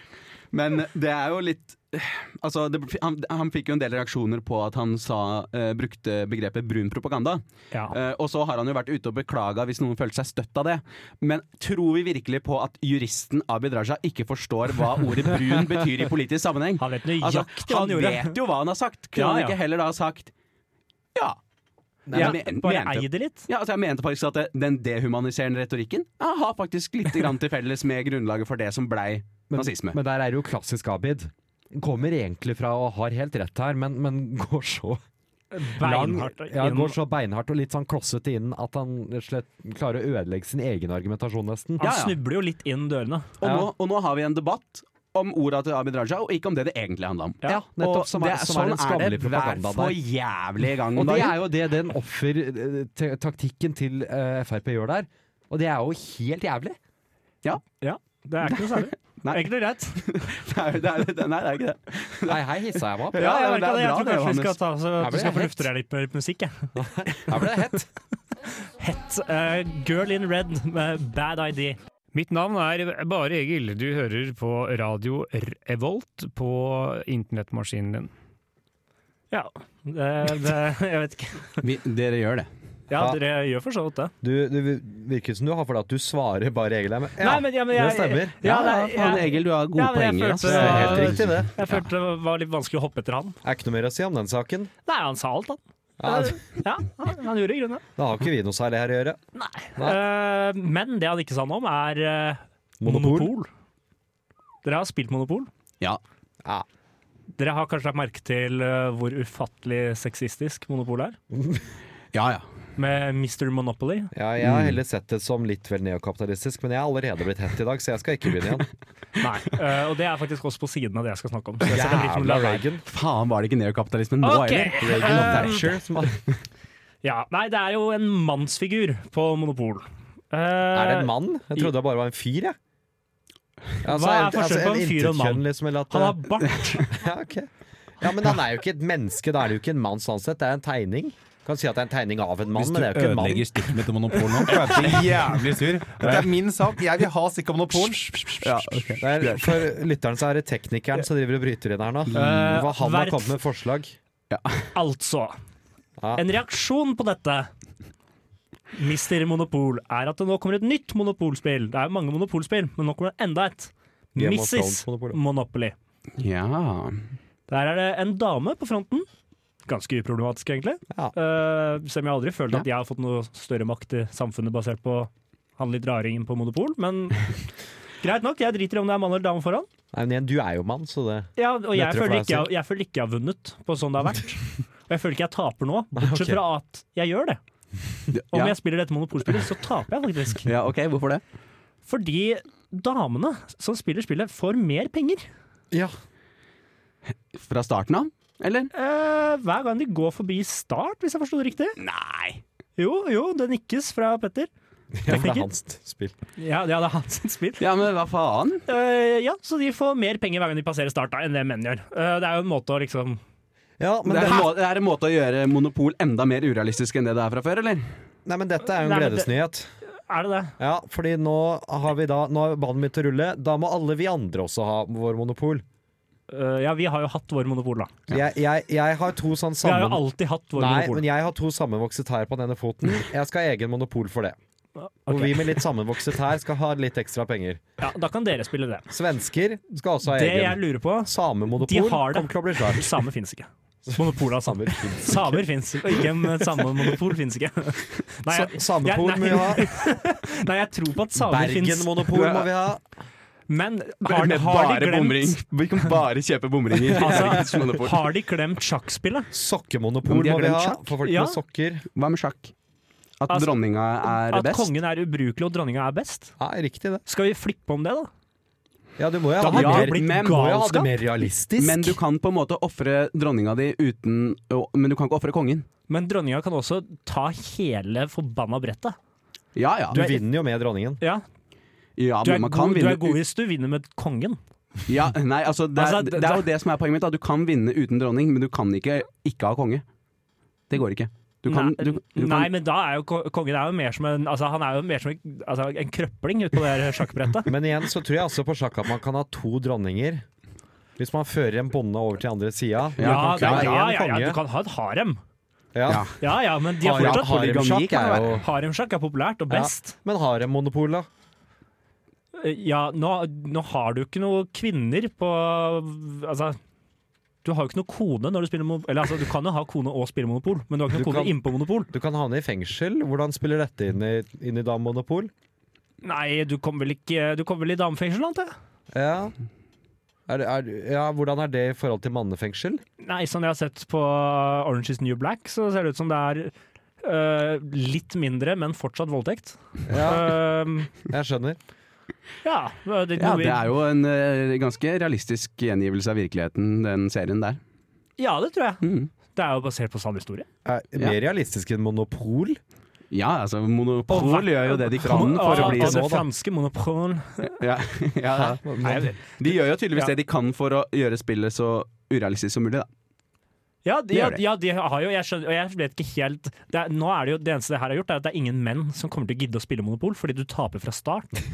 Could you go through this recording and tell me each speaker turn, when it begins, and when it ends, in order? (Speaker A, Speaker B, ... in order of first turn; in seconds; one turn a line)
Speaker A: 0.5-20.3
Speaker B: 16.8-18.4
Speaker B: 19.2-19.6
Speaker C: 22.1-22.4
Speaker A: 22.1-30.0
Speaker B: 22.1-23.5
Speaker C: 29.5-35.0
Speaker B: 35.5-37.0
Speaker C: 35.7-41.8
Speaker B: 41.8-43.3
Speaker A: 41.8-42.2
Speaker A: 43.4-51.4
Speaker C: 43.4-43.7
Speaker C: 47.5-50.0
Speaker C: 51.0-56.8
Speaker B: 57.8-60.0
Speaker A: 58.4-59.4
Speaker A: 60.0-62.4
Speaker C: 62.3-63.3
Speaker A: 63.1-64.6
Speaker B: 63.1-66.7
Speaker C: 65.0-65.7
Speaker C: 66.8-67.9
Speaker B: 68.8-71.8
Speaker D: 72.1-78.1
Speaker B: 79.3-81.6
Speaker A: 81.6-82.5
Speaker B: 82.9-84.1
Speaker C: 82.9-83.2
Speaker C: 84.2-88.4
Speaker B: 87.2-93.4
Speaker A: 88.4-91.8
Speaker C: 90.4-91.6
Speaker C: 93.4-94.7
Speaker B: 94.9-97.8
Speaker C: 96.0-96.4
Speaker C: 98.0-99.2
Speaker B: 99.3-103.5
Speaker C: 102.8-103.3
Speaker B: 104.7-105.5
Speaker B: 107.4-111.2
Speaker C: 111.3-111.6
Speaker A: 112.1-112.5
Speaker B: 112.8-114.1
Speaker C: 114.1-118.7
Speaker A: 114.4-114.8
Speaker B: 119.2-122.6
Speaker C: 121.7-122.8
Speaker A: 122.9-125.6
Speaker B: 124.2-125.6
Speaker C: 124.8-126.2
Speaker B: 127.0-131.1
Speaker C: 130.7-132.6
Speaker C: 133.8-137.5
Speaker B: 133.9-136.9
Speaker C: 138.0-143.8
Speaker E: 142.6-148.9
Speaker A: 148.4-149.6
Speaker C: 149.0-153.9
Speaker A: 152.1-152.4
Speaker B: 152.1-153.3
Speaker A: 154.3-154.7
Speaker B: 154.8-155.4
Speaker C: 156.0-156.2
Speaker B: 156.2-157.5
Speaker B: 158.8-165.8
Speaker C: 164.2-165.2
Speaker A: 166.2-167.0
Speaker B: 167.5-169.1
Speaker B: 169.7-177.3
Speaker B: 178.0-179.7
Speaker C: 179.9-182.5
Speaker B: 181.4-187.4
Speaker C: 186.0-186.4
Speaker A: 188.1-188.6
Speaker B: 188.3-190.5
Speaker A: 190.4-191.2
Speaker B: 191.9-195.2
Speaker A: 197.3-198.7
Speaker B: 198.7-201.8
Speaker A: 201.8-202.4
Speaker B: 202.8-204.5
Speaker C: 204.9-206.2
Speaker B: 205.1-205.5
Speaker B: 206.4-207.7
Speaker A: 207.6-208.7
Speaker B: 208.7-213.2
Speaker C: 213.8-214.5
Speaker A: 214.1-217.9
Speaker C: 218.3-219.7
Speaker B: 218.8-219.3
Speaker B: 219.9-220.6
Speaker C: 220.6-225.7
Speaker B: 226.3-227.9
Speaker C: 228.1-230.0
Speaker B: 229.6-231.1
Speaker C: 230.6-234.4
Speaker B: 234.8-235.6
Speaker C: 235.1-237.6
Speaker B: 237.8-238.9
Speaker C: 238.9-242.9
Speaker B: 240.0-252.5
Speaker C: 243.9-246.1
Speaker C: 248.3-249.7
Speaker C: 251.2-252.8
Speaker B: 253.5-255.9
Speaker A: 254.0-258.1
Speaker B: 256.9-259.3
Speaker C: 257.0-257.4
Speaker C: 259.3-261.9
Speaker B: 260.1-261.4
Speaker A: 262.0-262.5
Speaker A: 263.2-264.7
Speaker B: 263.3-266.3
Speaker C: 266.4-267.0
Speaker B: 267.1-268.1
Speaker C: 269.0-272.0
Speaker B: 269.4-271.0
Speaker A: 269.5-270.5
Speaker A: 271.6-275.7
Speaker B: 275.9-279.0
Speaker A: 279.6-280.0
Speaker C: 279.9-281.0
Speaker B: 279.9-280.2
Speaker A: 282.0-283.2
Speaker B: 282.2-284.4
Speaker A: 284.9-289.8
Speaker B: 285.8-286.4
Speaker A: 290.7-292.5
Speaker B: 291.5-297.5
Speaker C: 297.5-300.2
Speaker C: 301.0-304.4
Speaker A: 303.0-303.9
Speaker B: 303.0-305.2
Speaker C: 305.7-306.1
Speaker A: 305.9-306.2
Speaker B: 306.2-307.7
Speaker C: 306.8-308.4
Speaker A: 306.9-308.4
Speaker B: 308.4-309.9
Speaker C: 309.5-311.1
Speaker B: 312.4-316.6
Speaker B: 317.4-321.9
Speaker C: 320.9-321.4
Speaker C: 321.9-325.3
Speaker B: 326.0-328.5
Speaker C: 328.9-329.3
Speaker C: 330.3-332.8
Speaker B: 333.0-340.9
Speaker C: 339.9-340.4
Speaker C: 341.1-341.6
Speaker B: 342.4-343.7
Speaker A: 343.2-347.6
Speaker B: 348.2-350.5
Speaker A: 348.8-349.1
Speaker C: 350.6-352.6
Speaker A: 353.1-356.1
Speaker B: 354.1-357.5
Speaker C: 355.4-356.3
Speaker A: 357.4-358.6
Speaker C: 358.3-359.1
Speaker B: 358.8-360.1
Speaker A: 359.3-362.9
Speaker B: 363.9-371.3
Speaker A: 364.1-364.4